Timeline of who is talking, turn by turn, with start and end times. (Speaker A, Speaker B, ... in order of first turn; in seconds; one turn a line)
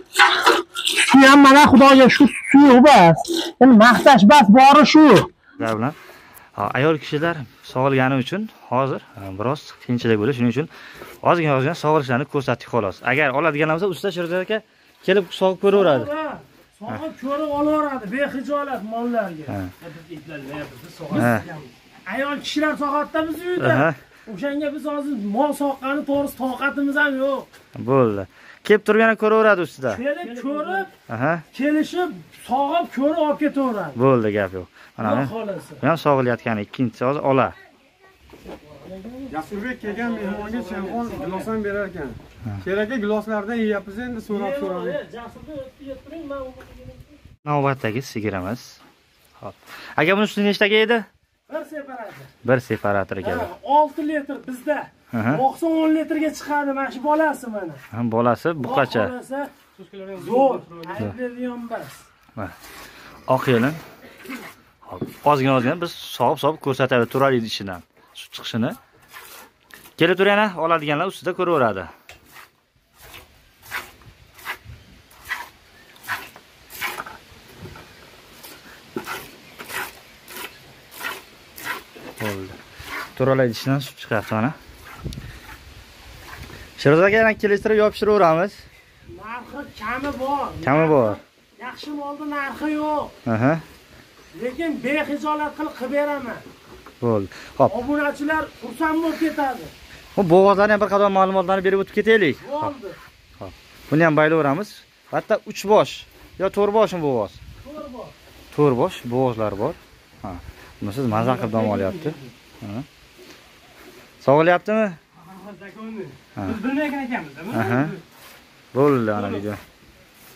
Speaker A: 0.9-5.2
Speaker B: 5.6-6.0
Speaker B: 6.5-10.7
Speaker B: 11.2-16.1
Speaker C: 15.7-19.6
Speaker B: 19.5-19.7
Speaker D: 19.8-21.6
Speaker C: 21.1-21.4
Speaker B: 21.1-21.4
Speaker C: 22.1-27.5
Speaker B: 23.6-24.0
Speaker B: 27.7-30.0
Speaker C: 29.9-30.9
Speaker B: 31.1-31.4
Speaker C: 31.5-34.0
Speaker B: 34.0-37.5
Speaker C: 35.0-35.8
Speaker C: 38.6-41.5
Speaker D: 39.3-45.0
Speaker C: 44.3-47.0
Speaker B: 47.4-48.8
Speaker B: 49.4-51.1
Speaker C: 51.5-52.3
Speaker B: 52.4-53.5
Speaker C: 53.2-57.8
Speaker B: 55.1-55.4
Speaker B: 57.9-59.1
Speaker C: 58.6-59.5
Speaker D: 59.8-61.0
Speaker C: 60.1-62.0
Speaker B: 63.3-63.8
Speaker B: 64.9-68.8
Speaker B: 70.0-71.9
Speaker B: 82.2-82.6
Speaker B: 83.2-84.5
Speaker B: 86.8-88.6
Speaker C: 89.1-93.1
Speaker B: 90.6-91.2
Speaker B: 93.2-93.6
Speaker C: 94.3-96.4
Speaker B: 97.0-97.7
Speaker C: 97.7-99.7
Speaker B: 100.2-102.7
Speaker C: 102.4-103.0
Speaker B: 103.4-107.4
Speaker C: 107.6-108.1
Speaker B: 108.5-112.8
Speaker C: 111.3-112.2
Speaker B: 114.2-115.0
Speaker C: 115.4-117.9
Speaker B: 117.5-117.9
Speaker B: 118.7-119.6